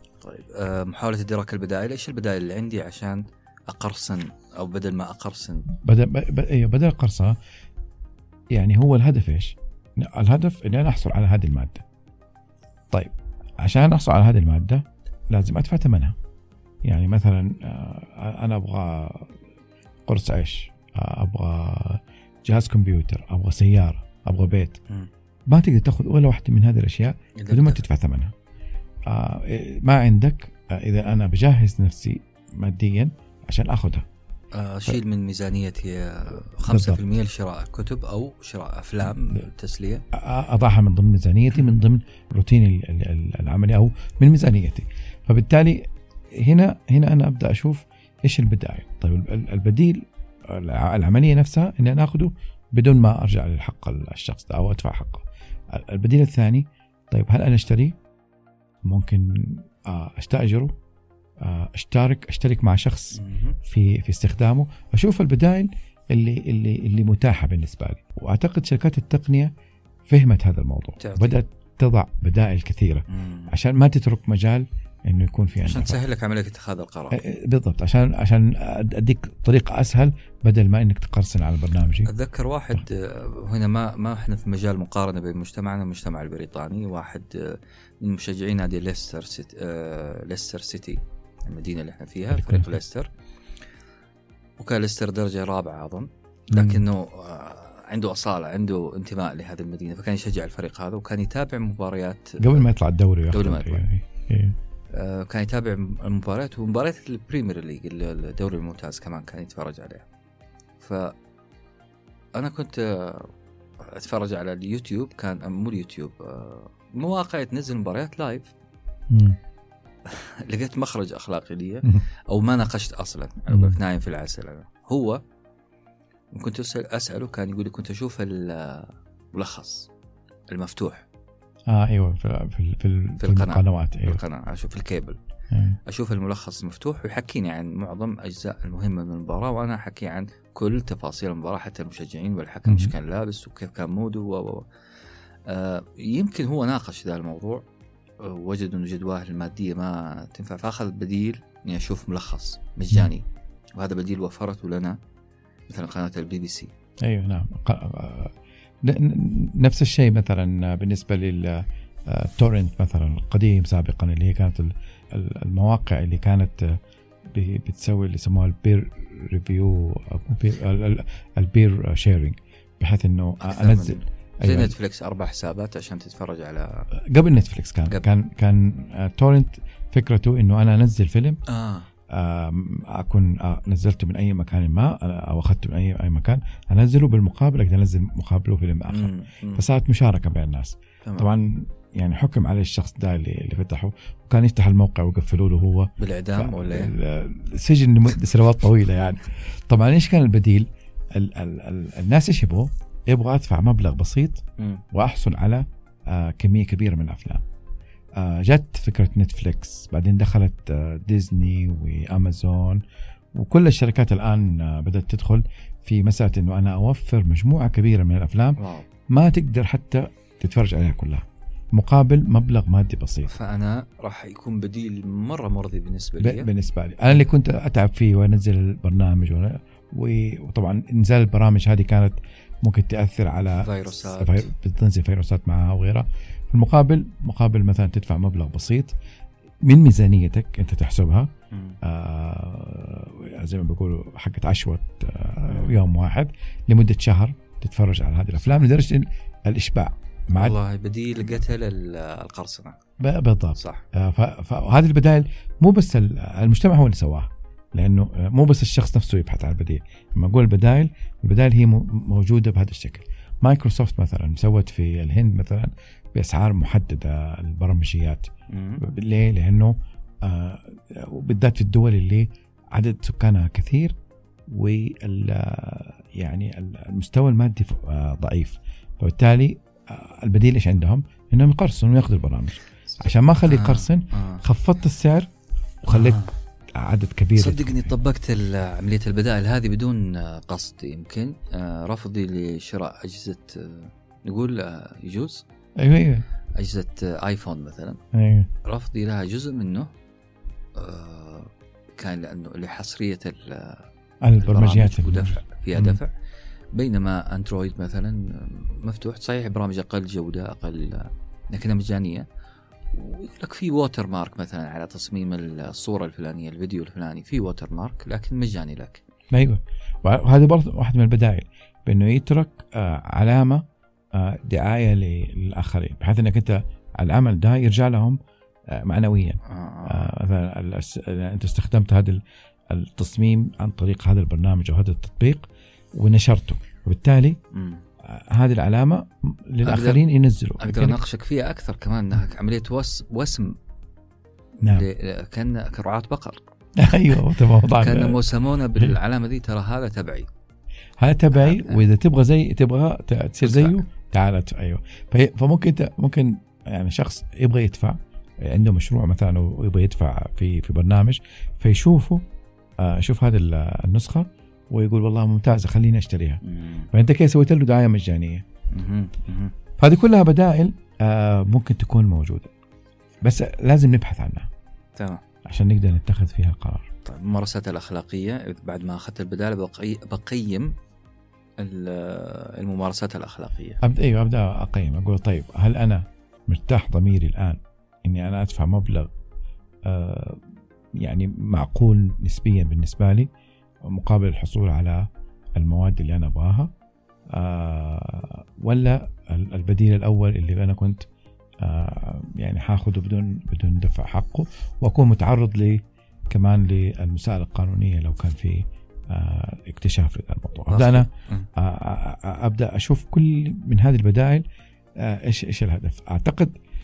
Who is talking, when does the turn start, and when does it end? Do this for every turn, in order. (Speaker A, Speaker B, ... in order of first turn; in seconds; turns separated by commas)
Speaker A: 0.2-5.7, Speaker B: 5.8-7.3, Speaker B: 8.5-11.8, Speaker B: 12.9-16.1, Speaker B: 16.8-19.4, Speaker B: 20.1-24.8, Speaker B: 25.5-28.3, Speaker A: 27.4-27.8, Speaker B: 29.1-34.0, Speaker A: 34.5-40.0, Speaker B: 36.6-37.0, Speaker B: 40.1-58.0, Speaker B: 58.8-60.7, Speaker B: 61.4-69.5, Speaker A: 63.1-63.6, Speaker B: 70.1-76.0, Speaker A: 71.0-71.4, Speaker A: 73.1-73.5, Speaker A: 75.6-77.2, Speaker B: 77.1-82.1, Speaker A: 82.0-93.1, Speaker B: 92.3-92.8, Speaker A: 94.6-102.7, Speaker B: 96.5-96.8, Speaker B: 102.4-104.5, Speaker A: 103.3-103.8, Speaker A: 104.9-110.0, Speaker A: 110.8-111.1, Speaker A: 112.3-118.5, Speaker B: 119.1-119.4, Speaker A: 120.0-125.2, Speaker B: 123.5-123.8, Speaker A: 126.3-129.9, Speaker A: 130.5-131.0, Speaker B: 131.7-134.2, Speaker A: 133.2-135.2, Speaker B: 135.5-135.8, Speaker A: 135.9-144.7, Speaker B: 142.7-142.9, Speaker A: 145.5-147.6, Speaker A: 148.2-153.2, Speaker A: 153.8-155.0, Speaker A: 155.7-156.7, Speaker B: 157.0-174.7, Speaker A: 173.4-176.9, Speaker B: 176.9-181.4, Speaker A: 181.5-181.9, Speaker B: 182.1-207.4, Speaker A: 188.9-189.6, Speaker A: 191.0-191.3, Speaker A: 196.0-196.9, Speaker A: 204.6-204.8, Speaker B: 208.2-212.8, Speaker B: 213.3-218.6, Speaker A: 218.6-218.8, Speaker B: 219.1-223.3, Speaker A: 223.3-226.5, Speaker B: 226.2-238.9, Speaker A: 233.6-234.5, Speaker B: 239.6-241.3, Speaker A: 241.5-241.8, Speaker B: 241.8-250.6, Speaker A: 245.5-245.8, Speaker A: 250.3-252.8, Speaker B: 253.0-268.3, Speaker A: 253.6-253.8, Speaker A: 268.5-268.8, Speaker B: 268.8-273.9, Speaker B: 274.5-285.3, Speaker A: 282.9-284.4, Speaker B: 285.8-286.2, Speaker A: 285.9-286.3, Speaker B: 286.8-287.9, Speaker A: 287.3-295.4, Speaker B: 295.8-296.2, Speaker A: 296.6-298.0, Speaker B: 298.1-298.5, Speaker A: 298.6-299.9, Speaker A: 300.8-303.9, Speaker B: 304.2-306.0, Speaker A: 304.4-306.1, Speaker A: 306.7-312.2, Speaker A: 312.9-319.0, Speaker B: 319.3-323.6, Speaker B: 324.1-328.2, Speaker B: 328.7-337.4, Speaker A: 329.4-330.1, Speaker A: 337.5-337.8, Speaker B: 338.0-341.0, Speaker A: 339.6-340.0, Speaker A: 340.6-343.5, Speaker A: 344.6-346.4, Speaker B: 346.8-348.2, Speaker A: 346.9-350.3, Speaker B: 351.0-362.2, Speaker A: 351.3-351.8, Speaker A: 353.4-353.8, Speaker B: 362.8-366.4, Speaker A: 366.4-366.9, Speaker B: 366.9-368.4, Speaker A: 368.7-369.5, Speaker B: 369.8-372.5, Speaker B: 373.2-374.5, Speaker A: 375.0-375.2, Speaker B: 375.4-376.9, Speaker A: 377.0-380.7, Speaker A: 381.6-383.8, Speaker B: 383.8-389.1, Speaker B: 389.8-390.4, Speaker B: 391.0-393.3, Speaker B: 393.9-396.7, Speaker B: 397.3-401.1, Speaker B: 401.6-414.4, Speaker A: 410.7-411.5, Speaker B: 415.0-416.6